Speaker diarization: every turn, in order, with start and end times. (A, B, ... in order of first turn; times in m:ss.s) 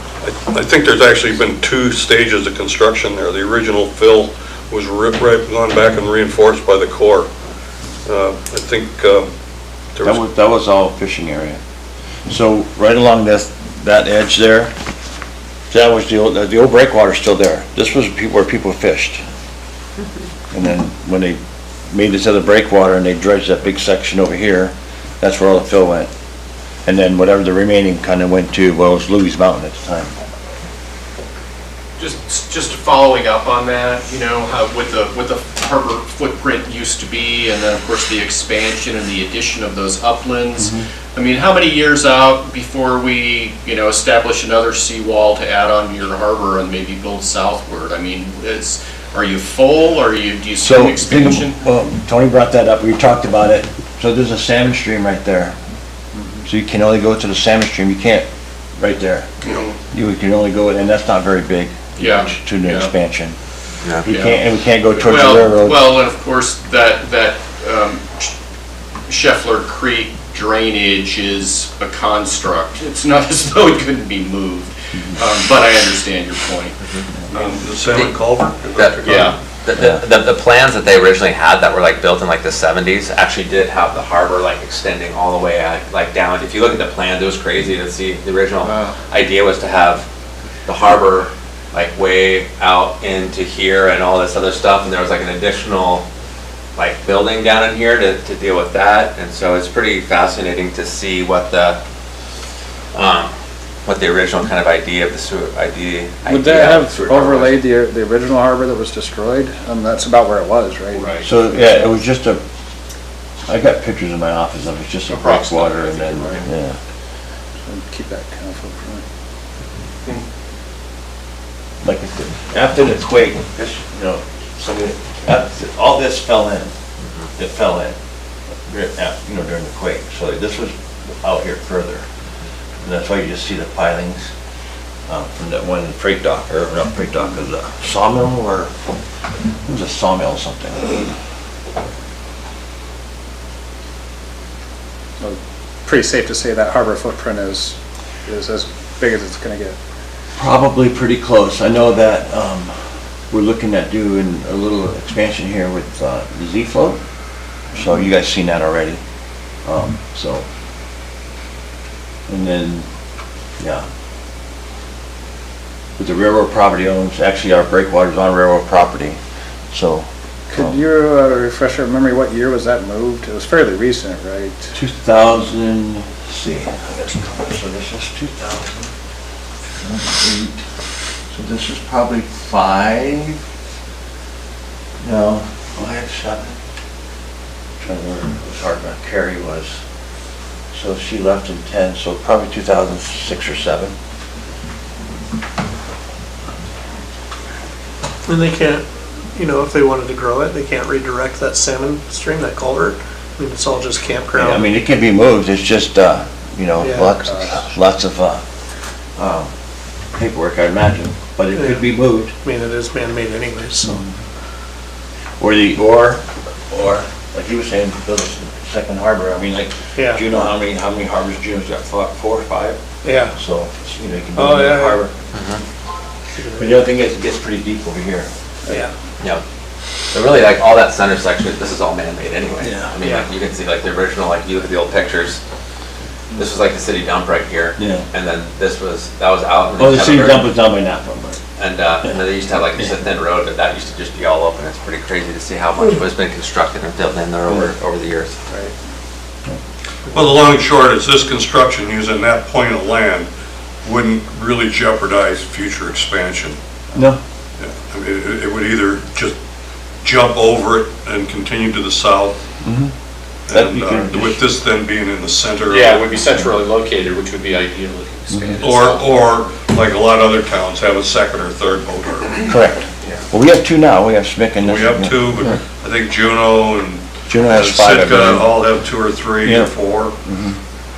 0:00.2-0:07.3 A
0:08.0-0:09.3 A
0:10.0-0:10.2 A
0:10.0-0:11.6 B
0:12.3-0:14.7 B
0:15.7-0:19.2 B
0:20.5-0:21.4 B
0:21.9-0:26.1 B
0:26.9-0:30.1 B
0:32.0-0:51.6 C
0:40.6-0:40.8 B
0:50.6-0:55.6 B
0:56.4-0:58.3 B
0:58.8-1:03.4 B
0:59.4-0:59.8 C
1:02.0-1:02.9 C
1:04.0-1:05.8 B
1:04.0-1:08.3 C
1:09.1-1:16.8 C
1:16.8-1:17.1 D
1:17.3-1:19.4 A
1:17.9-1:18.2 D
1:18.8-1:30.1 D
1:19.0-1:19.4 C
1:19.8-1:20.0 B
1:30.7-1:36.0 D
1:36.8-1:41.8 D
1:42.9-1:43.3 D
1:43.8-1:47.6 D
1:46.3-1:51.9 E
1:50.9-1:51.3 C
1:51.2-1:52.4 B
1:53.5-1:56.8 B
1:55.1-1:56.5 C
1:57.7-1:59.0 E
2:01.8-2:06.7 B
2:07.4-2:08.0 B
2:08.7-2:12.1 B
2:12.8-2:14.3 B
2:15.1-2:18.7 B
2:19.6-2:21.1 B
2:25.2-2:29.8 E
2:30.4-2:32.8 B
2:33.3-2:37.0 B
2:37.7-2:39.0 B
2:39.6-2:40.5 B
2:42.3-2:42.9 B
2:43.6-2:43.9 B
2:46.0-2:49.2 B
2:49.7-2:50.8 B
2:50.5-2:54.7 E
2:54.7-2:58.9 B
2:59.8-3:00.6 B
3:01.3-3:03.4 B
3:05.0-3:06.6 B
3:07.8-3:09.8 B
3:10.7-3:13.9 B
3:18.3-3:24.7 F
3:24.4-3:28.4 B
3:26.8-3:27.1 F
3:27.1-3:27.6 E
3:29.2-3:29.5 B
3:30.1-3:32.3 B
3:31.5-3:31.9 F
3:32.4-3:33.9 F
3:33.8-3:34.2 B
3:35.4-3:42.8 B
3:40.0-3:40.5 F
3:43.0-3:43.4 F
3:43.3-3:45.1 B
3:44.4-3:45.1 F
3:45.3-3:45.6 D
3:46.4-3:46.8 F
3:46.6-3:48.3 B
3:50.1-3:55.4 D
3:52.6-3:52.9 B
3:53.0-3:53.3 F
3:56.4-4:00.5 D
3:57.8-3:58.1 B
3:59.8-4:01.4 B
4:01.6-4:08.4 D
4:07.5-4:07.7 B
4:10.1-4:13.3 A
4:13.8-4:16.6 A
4:17.0-4:17.2 B
4:17.6-4:19.3 A
4:20.0-4:22.4 A
4:22.6-4:22.9 B
4:23.5-4:26.1 A
4:23.5-4:24.4 B
4:25.7-4:29.2 C
4:28.3-4:28.6 B
4:28.6-4:32.4 A
4:32.5-4:35.6 B
4:34.6-4:40.2 A
4:37.3-4:38.5 B
4:39.4-4:40.6 B